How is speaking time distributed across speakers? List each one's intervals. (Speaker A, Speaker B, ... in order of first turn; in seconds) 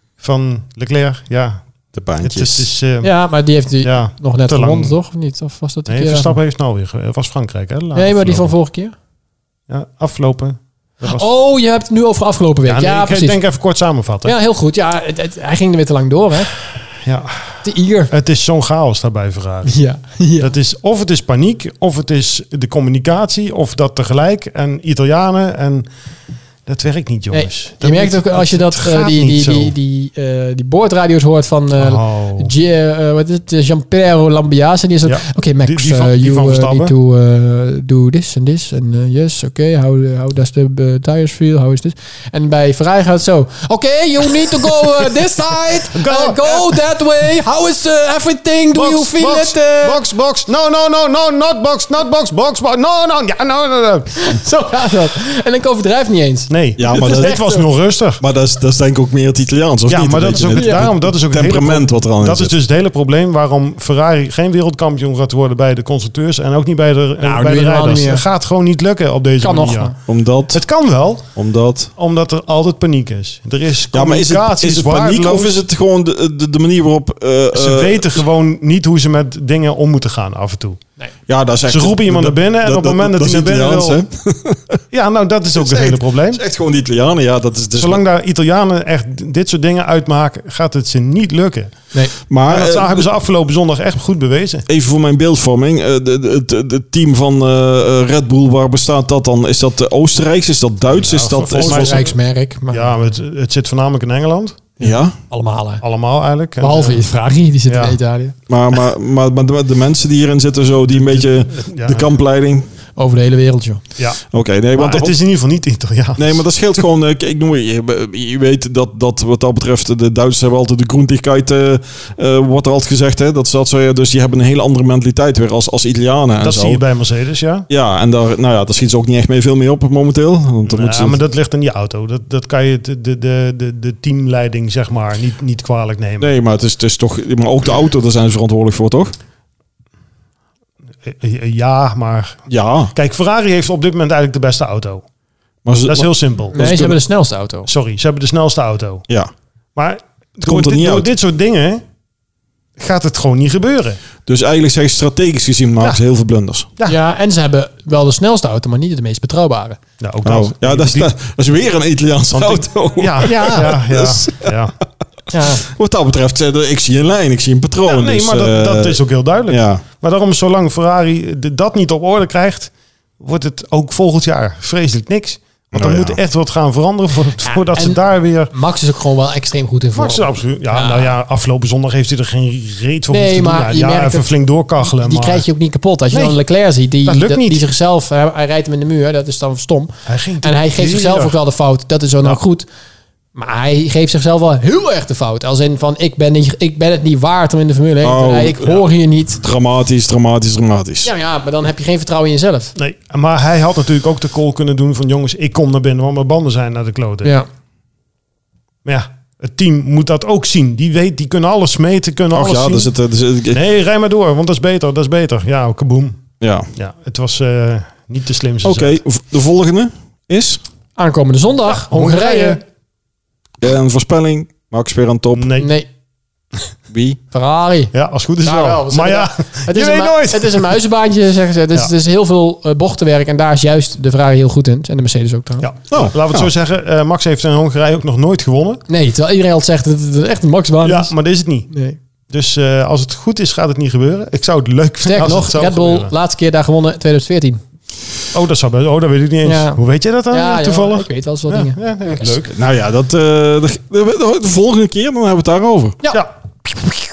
Speaker A: 0.2-1.6, 2.2-3.1, 3.8-5.0, 5.9-8.5, 9.7-11.3, 12.7-14.3, 17.0-19.8, 20.4-25.9, 26.7-29.8, 31.8-32.5, 35.0-36.9, 45.9-46.8, 48.7-54.1, 56.5-58.2, 59.9-70.0, 70.5-71.3, 72.0-75.5, 77.5-80.8, 81.7-84.0, 84.9-86.4, 87.8-91.9, 92.5-94.7, 100.9-102.1, 102.7-104.7, 105.8-107.0, 107.7-108.0, 110.9-112.1, 114.0-114.2, 114.7-116.4, 126.4-127.7, 130.7-136.3, 141.0-142.4, 142.9-145.0, 145.9-146.8, 147.7-149.1, 149.8-151.8, 152.8-154.0, 160.0-161.1, 162.3-164.8, 167.8-178.5, 179.9-185.4, 186.1-186.4, 187.1-187.7, 190.1-191.4, 202.8-207.3, 208.8-212.9, 213.5-216.2, 216.7-219.0, 221.7-222.6, 225.3-225.7, 227.9-230.8, 235.6-238.8, 240.8-241.7, 242.3-246.1, 248.3-252.6
Speaker B: 1.9-2.7, 56.8-57.4, 58.2-62.5, 70.1-70.6, 71.4-71.9, 73.9-78.2, 81.3-84.8, 85.6-88.0, 92.3-93.1, 94.7-102.1, 104.8-105.2, 108.5-112.7, 114.3-115.2, 116.2-126.8, 127.7-131.2, 136.2-139.1, 142.5-142.9, 145.7-147.0, 150.4-151.1, 154.3-156.7, 160.2-164.5, 165.6-169.8, 175.7-176.2, 198.0-198.8, 199.4-201.1, 212.3-213.6, 216.4-216.7, 218.6-220.6, 223.6-225.5, 226.9-227.2, 235.9-236.5, 252.5-256.0
Speaker C: 3.0-6.4, 7.9-8.9, 11.0-13.4, 14.2-16.5, 17.6-18.1, 19.7-20.5, 27.3-50.0, 54.2-57.6, 60.5-60.9, 67.2-68.2, 69.4-70.0, 101.5-102.9, 104.8-105.8, 106.6-108.3, 113.0-113.8, 146.5-147.7, 156.9-159.8, 163.2-163.7, 165.3-165.6, 177.4-181.1, 183.1-184.3, 184.8-192.7, 193.3-199.4, 201.0-202.7, 221.0-222.6, 225.6-225.9, 227.3-235.7, 238.9-241.1, 241.7-242.0, 245.1-247.6, 249.4-252.3